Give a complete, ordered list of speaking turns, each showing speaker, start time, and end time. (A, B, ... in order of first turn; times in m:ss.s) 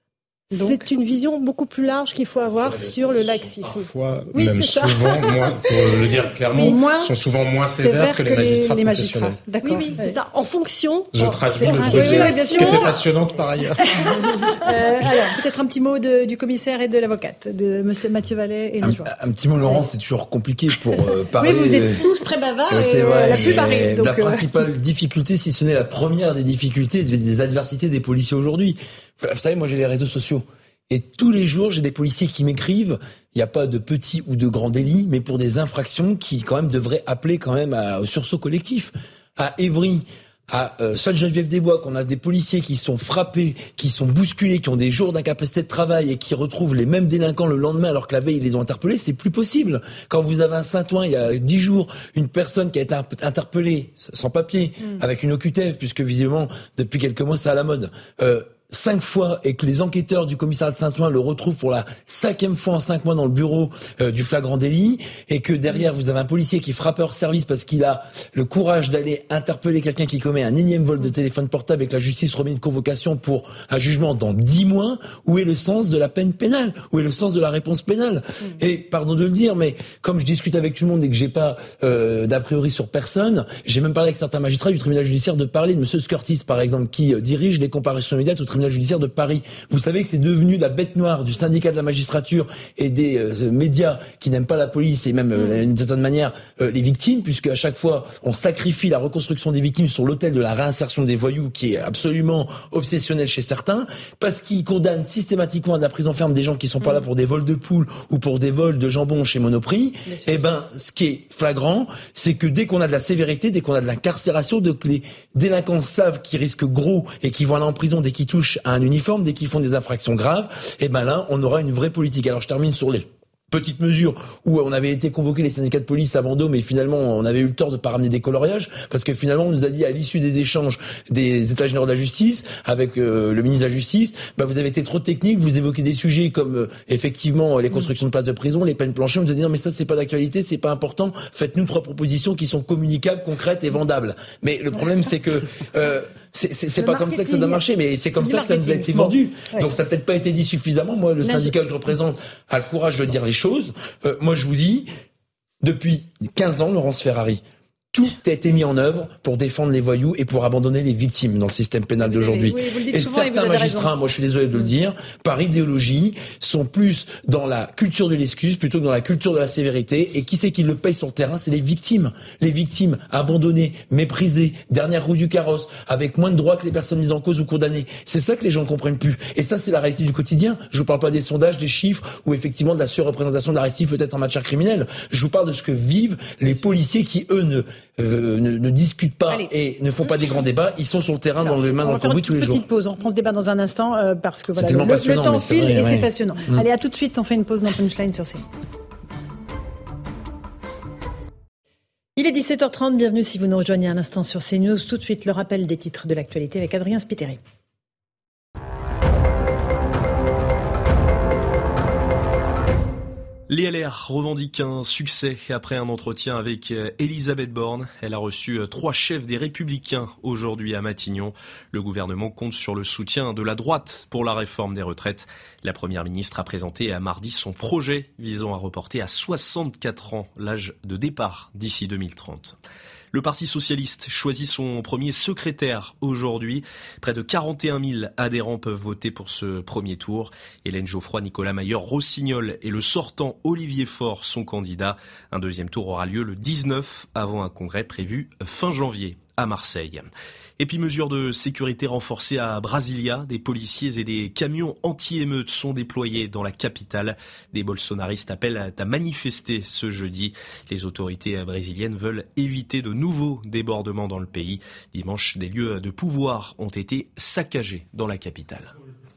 0:00.5-0:00.8 A
0:00.6-0:05.4 B
0:02.6-0:09.4 C
0:06.5-0:07.2 A
0:07.8-0:10.2 A
0:09.6-0:12.9 B
0:11.1-0:14.5 C
0:11.6-0:13.0 A
0:13.9-0:19.1 A
0:18.8-0:22.0 D
0:21.4-0:24.6 A
0:22.7-2:34.9 D
1:50.0-1:50.4 A
2:26.8-2:27.6 A
2:28.2-2:29.7 A
2:31.2-2:31.5 A
2:35.6-3:12.6 D
2:42.0-2:43.9 A
3:11.4-3:18.4 A
3:14.5-3:16.6 D
3:22.2-3:27.4 A
3:33.5-3:52.6 E
3:53.1-4:10.1 E
4:10.6-4:28.7 E